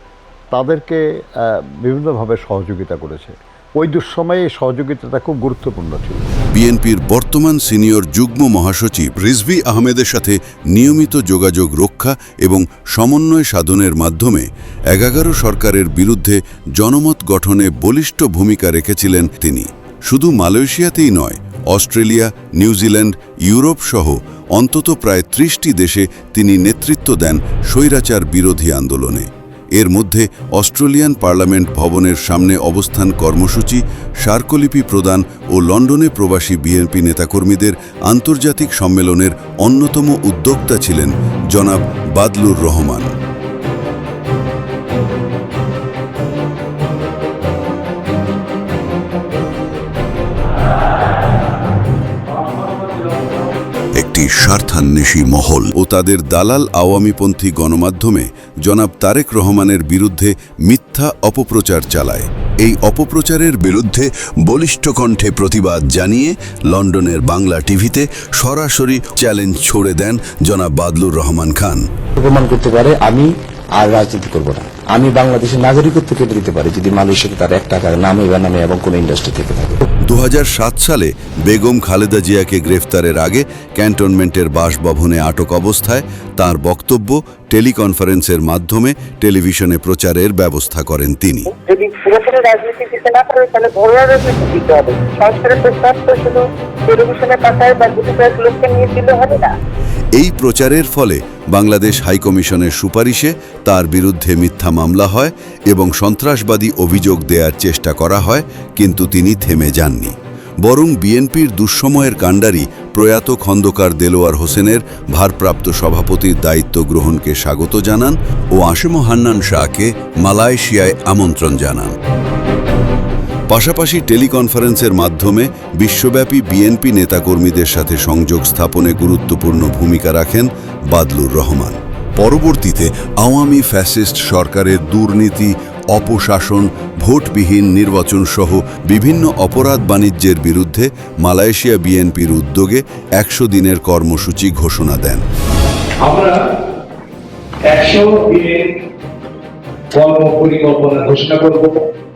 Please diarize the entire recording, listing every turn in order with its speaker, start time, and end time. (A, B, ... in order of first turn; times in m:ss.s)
0:00.5-0:06.3 A
0:06.5-0:43.1 B
0:54.0-1:11.8 B
1:12.2-1:19.8 C
1:20.0-1:31.5 B
1:31.7-1:39.5 D
1:40.1-2:02.0 B
2:03.5-2:25.2 B
2:27.8-2:28.4 E
2:30.0-2:31.6 E